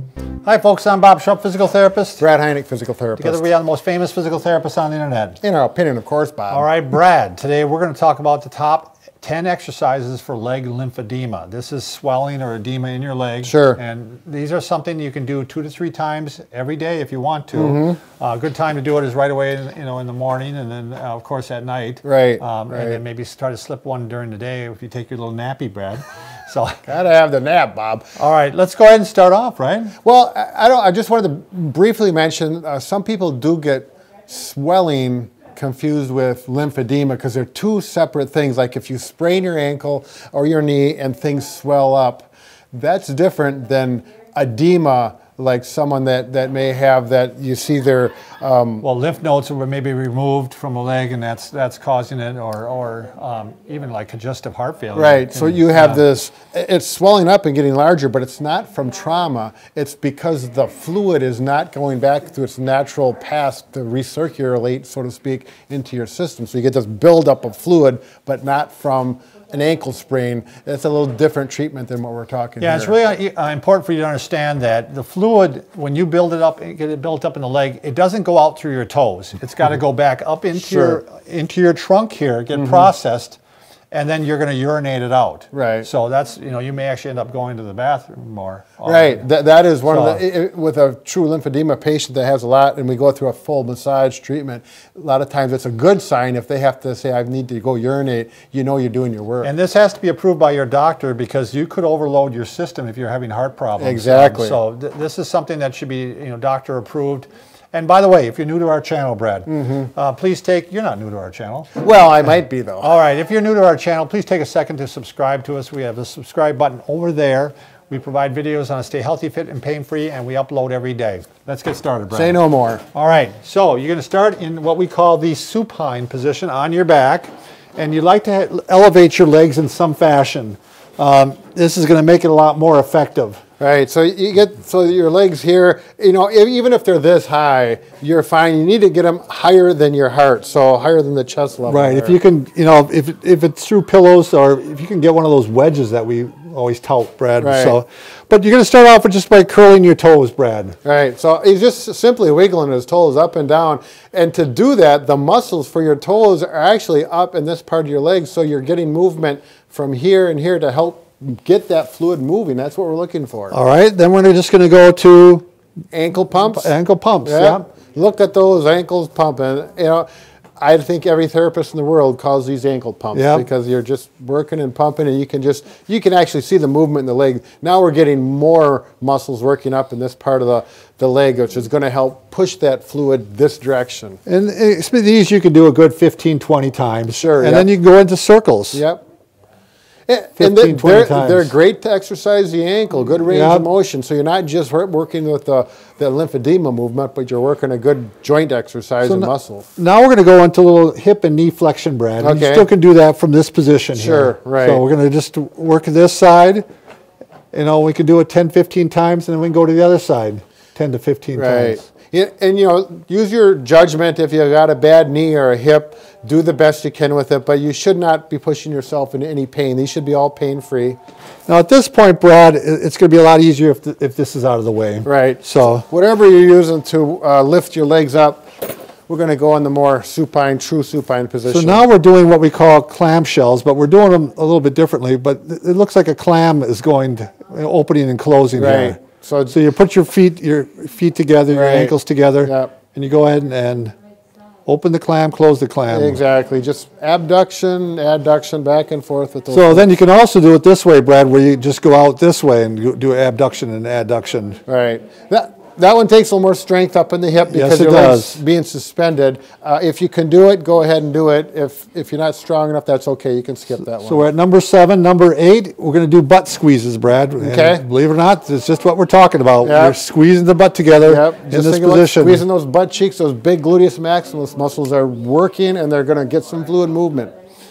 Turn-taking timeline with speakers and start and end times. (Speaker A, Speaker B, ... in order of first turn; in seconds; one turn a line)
Speaker A: 0.4-2.2
Speaker B: 2.2-3.5
Speaker A: 3.2-5.4
Speaker B: 5.4-6.7
Speaker A: 6.5-26.8
Speaker B: 13.4-13.8
Speaker B: 17.5-18.0
Speaker B: 22.0-23.0
Speaker B: 26.9-28.1
Speaker A: 28.2-29.9
Speaker B: 30.0-48.8
Speaker A: 48.8-56.0
Speaker B: 54.9-73.0
Speaker A: 72.6-83.4
Speaker B: 80.5-81.0
Speaker B: 82.5-82.9
Speaker A: 83.9-89.2
Speaker B: 85.5-85.9
Speaker B: 88.8-99.5
Speaker A: 89.9-90.2
Speaker A: 99.4-111.7
Speaker B: 103.8-104.6
Speaker B: 109.5-109.9
Speaker B: 111.8-112.9
Speaker A: 112.8-122.4
Speaker B: 122.1-122.8
Speaker A: 122.9-133.4
Speaker B: 133.6-142.2
Speaker A: 141.7-150.8
Speaker B: 147.4-147.8
Speaker B: 150.8-163.6
Speaker A: 163.5-165.4
Speaker B: 165.9-166.7
Speaker A: 166.4-167.6
Speaker B: 167.2-170.1
Speaker B: 170.6-184.2
Speaker A: 173.1-173.4
Speaker A: 184.2-188.8
Speaker B: 187.1-187.7
Speaker B: 188.7-189.0
Speaker B: 190.1-199.7
Speaker A: 190.4-191.5
Speaker A: 193.3-193.7
Speaker A: 199.0-206.6
Speaker B: 202.2-202.7
Speaker B: 203.9-204.8
Speaker A: 207.5-211.8
Speaker B: 211.3-221.0
Speaker A: 221.5-225.8
Speaker B: 225.0-228.5
Speaker B: 229.1-231.8
Speaker A: 231.4-239.0
Speaker B: 238.6-239.6
Speaker A: 239.5-243.9
Speaker B: 241.5-242.7
Speaker A: 244.7-246.2
Speaker B: 245.9-249.9
Speaker A: 249.5-254.6
Speaker B: 254.7-264.3
Speaker A: 257.5-258.4
Speaker A: 264.0-272.4
Speaker B: 267.4-267.8
Speaker B: 269.6-270.0
Speaker B: 271.0-277.3